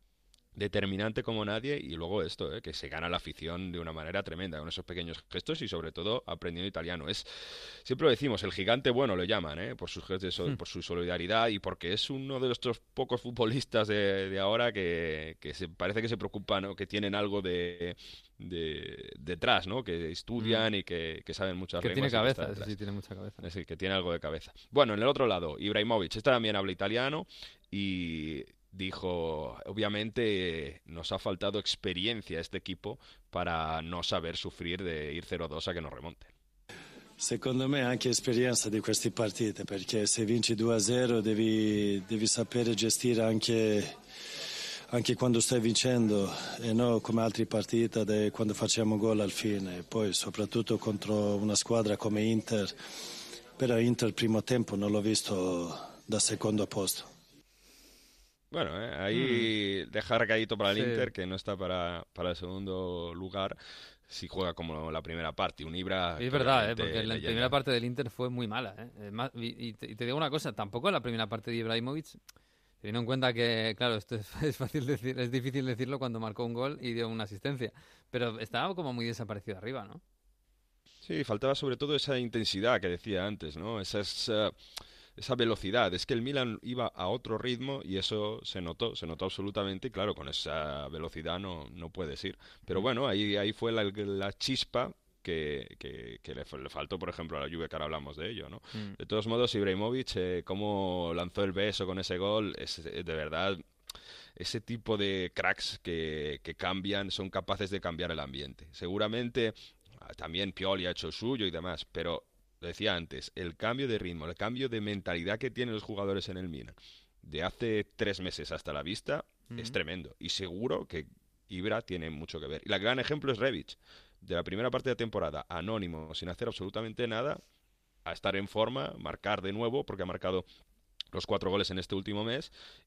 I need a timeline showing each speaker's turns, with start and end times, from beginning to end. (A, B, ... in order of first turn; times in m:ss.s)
0:00.5-0:22.8 A
0:20.4-0:20.6 B
0:21.8-0:23.4 B
0:23.4-0:36.3 A
0:37.2-0:43.9 C
0:44.9-0:52.7 C
0:53.6-0:57.0 C
0:58.5-1:03.6 A
0:59.1-0:59.5 B
1:00.7-1:01.1 B
1:04.1-1:07.6 A
1:06.2-1:12.2 B
1:12.8-1:20.0 B
1:21.0-1:24.6 A
1:25.2-1:43.6 A
1:44.4-2:07.4 A
1:59.5-1:59.8 B
2:08.0-2:10.4 A
2:11.1-2:12.5 A